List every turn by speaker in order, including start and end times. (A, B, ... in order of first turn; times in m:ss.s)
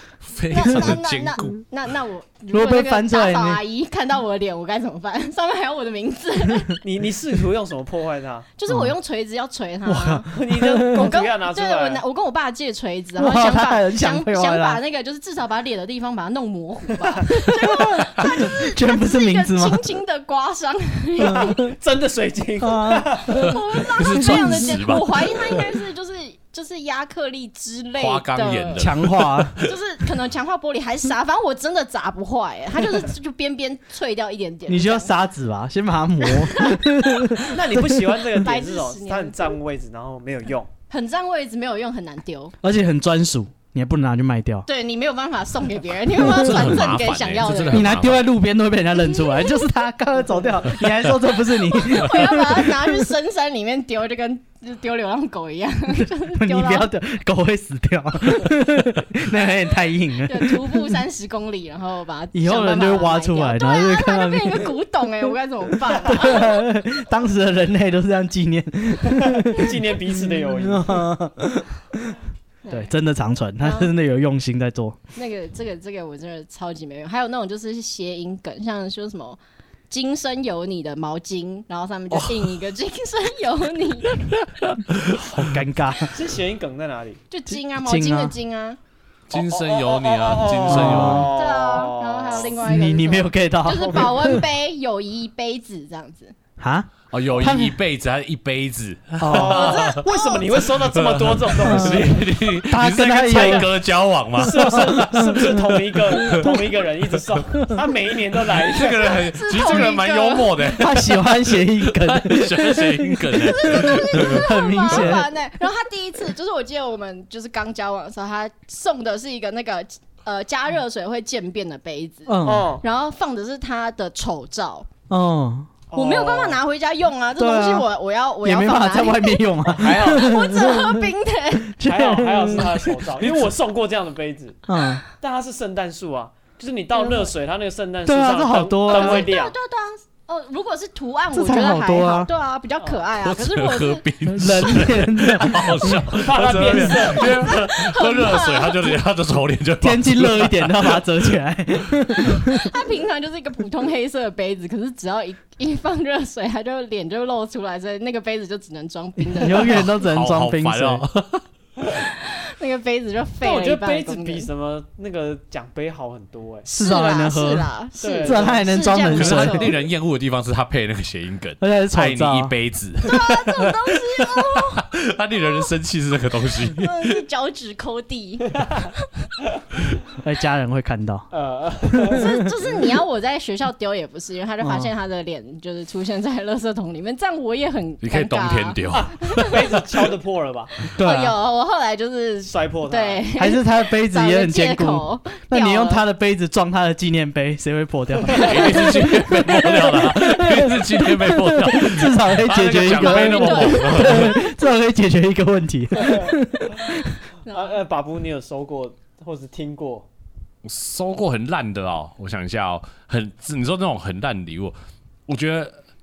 0:00.2-0:01.6 A
0:00.5-0:06.8 B
0:02.5-0:03.6 C
0:06.8-0:08.5 D
0:08.6-0:10.3 B
0:08.7-0:08.9 C
0:09.9-0:11.1 C
0:10.0-0:12.0 D
0:10.9-0:21.6 B
0:13.2-0:14.8 C
0:17.2-0:19.8 C
0:21.2-0:21.7 C
0:21.3-0:23.4 D
0:22.6-0:23.6 C
0:23.4-0:28.9 B
0:23.4-0:25.6 A
0:24.1-0:25.0 C
0:28.0-0:29.7 A
0:28.8-0:29.6 C
0:29.6-0:35.1 B
0:34.7-0:38.1 C
0:36.4-0:36.8 B
0:37.5-0:40.7 D
0:38.4-0:39.5 B
0:40.9-0:42.5 B
0:42.6-0:44.6 C
0:44.6-0:47.9 B
0:46.2-0:48.3 A
0:47.7-0:53.1 C
0:49.0-0:49.7 B
0:51.7-0:56.9 B
0:56.3-1:00.9 C
1:00.2-1:06.6 B
1:02.3-1:04.7 C
1:05.9-1:12.2 C
1:09.2-1:11.1 D
1:12.6-1:12.9 B
1:12.7-1:15.0 C
1:13.6-1:13.9 B
1:15.1-1:24.3 B
1:22.1-1:22.6 A
1:24.6-1:25.5 A
1:25.1-1:26.1 C
1:26.1-1:27.2 D
1:27.3-1:28.8 B
1:27.8-1:28.3 C
1:29.3-1:31.3 A
1:29.3-1:32.6 D
1:30.6-1:31.3 C
1:31.3-1:36.3 B
1:32.5-1:34.4 C
1:36.6-1:37.8 C
1:37.1-1:40.0 A
1:39.2-1:39.7 C
1:39.3-1:42.2 D
1:39.5-1:40.5 B
1:40.8-1:46.6 A
1:41.6-1:43.7 C
1:43.2-1:43.7 D
1:44.4-1:49.2 D
1:44.4-1:45.6 C
1:48.4-1:55.1 A
1:49.0-1:50.6 B
1:50.7-1:55.3 C
1:53.4-2:04.9 B
2:02.3-2:02.7 C
2:02.4-2:02.8 D
2:05.1-2:05.7 C
2:05.9-2:06.6 D
2:05.9-2:11.8 B
2:07.4-2:07.9 C
2:08.4-2:11.0 C
2:09.6-2:10.7 D
2:11.6-2:13.5 C
2:11.8-2:14.6 D
2:14.7-2:15.0 C
2:15.2-2:19.6 D
2:18.0-2:19.3 C
2:18.9-2:24.9 B
2:21.3-2:22.3 C
2:22.8-2:23.1 D
2:23.2-2:31.0 A
2:24.2-2:26.2 C
2:26.2-2:27.3 D
2:27.2-2:29.0 B
2:29.8-2:32.7 C
2:32.3-2:39.9 B
2:39.3-2:41.0 C
2:39.5-2:41.4 A
2:41.9-2:44.5 B
2:43.4-2:46.6 D
2:46.6-2:49.7 B
2:46.7-2:47.7 C
2:48.0-2:48.7 D
2:48.2-2:49.7 C
2:49.1-2:57.2 A
2:51.6-2:52.5 C
2:53.0-2:54.8 B
2:56.7-2:58.5 B
3:00.2-3:01.3 C
3:01.3-3:02.2 D
3:01.9-3:02.5 C
3:02.1-3:09.5 B
3:04.6-3:04.9 C
3:08.0-3:09.8 A
3:08.9-3:10.7 D
3:10.9-3:11.4 C
3:11.0-3:16.0 B
3:12.4-3:13.3 D
3:13.4-3:27.1 C
3:18.3-3:24.4 A
3:18.4-3:18.7 D
3:22.9-3:24.4 B
3:25.9-3:26.4 D
3:27.4-3:27.8 B
3:27.5-3:30.1 D
3:30.6-3:34.8 A
3:35.3-3:35.8 A